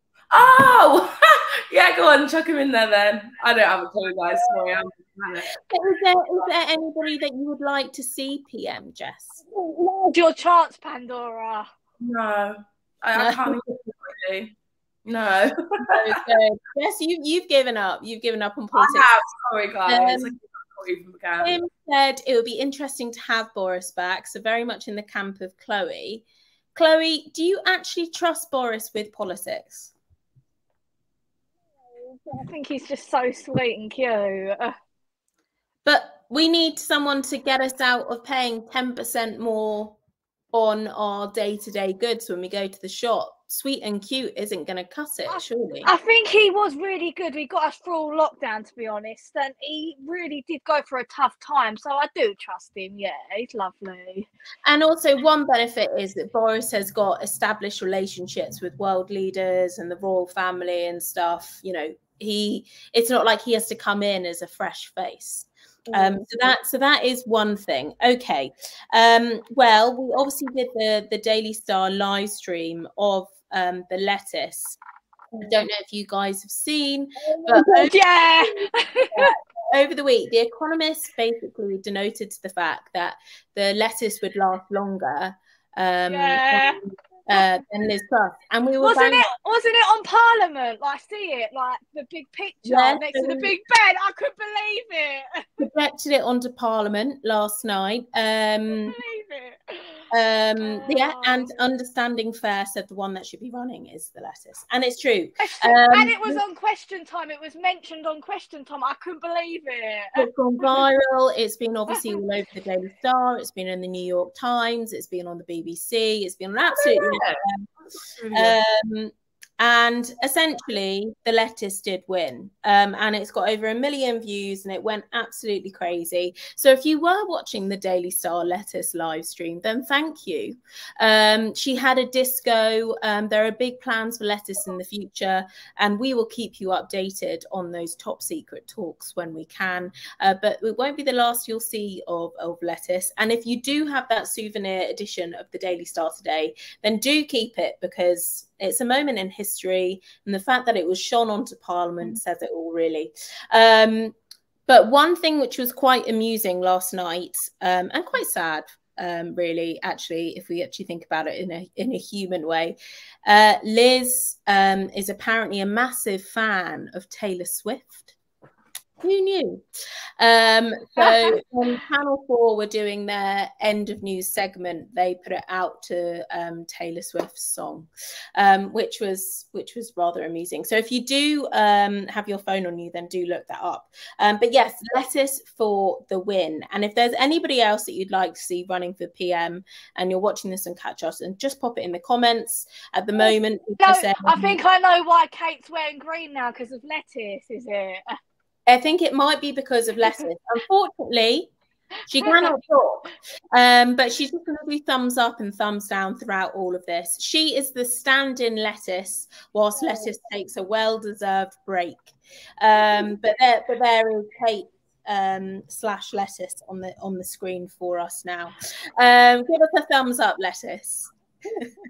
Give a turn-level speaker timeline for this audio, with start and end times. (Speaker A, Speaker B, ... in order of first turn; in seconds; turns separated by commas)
Speaker A: 0.3-5.6, Speaker B: 5.7-9.4, Speaker C: 9.4-11.7, Speaker A: 12.0-14.6, Speaker B: 13.2-13.6, Speaker A: 15.1-16.2, Speaker B: 15.8-19.1, Speaker A: 18.7-21.6, Speaker B: 19.9-20.4, Speaker B: 21.4-26.2, Speaker B: 26.8-29.9, Speaker C: 32.0-34.7, Speaker B: 35.9-40.0, Speaker B: 40.5-45.9, Speaker C: 45.3-54.3, Speaker B: 54.7-74.8, Speaker C: 65.9-66.3, Speaker B: 75.4-89.2, Speaker C: 77.2-79.3, Speaker C: 86.1-86.8, Speaker C: 88.8-95.6, Speaker B: 92.7-93.5, Speaker B: 95.6-99.0, Speaker C: 98.9-100.0, Speaker B: 100.1-106.4, Speaker C: 100.6-101.5, Speaker C: 105.4-110.3, Speaker B: 110.2-117.7, Speaker A: 116.7-117.4, Speaker A: 118.2-118.6, Speaker B: 118.3-154.2, Speaker B: 154.7-168.1, Speaker B: 169.0-169.6, Speaker B: 170.2-194.6, Speaker C: 193.2-198.2, Speaker B: 198.7-201.5, Speaker B: 202.1-221.7, Speaker C: 202.2-202.6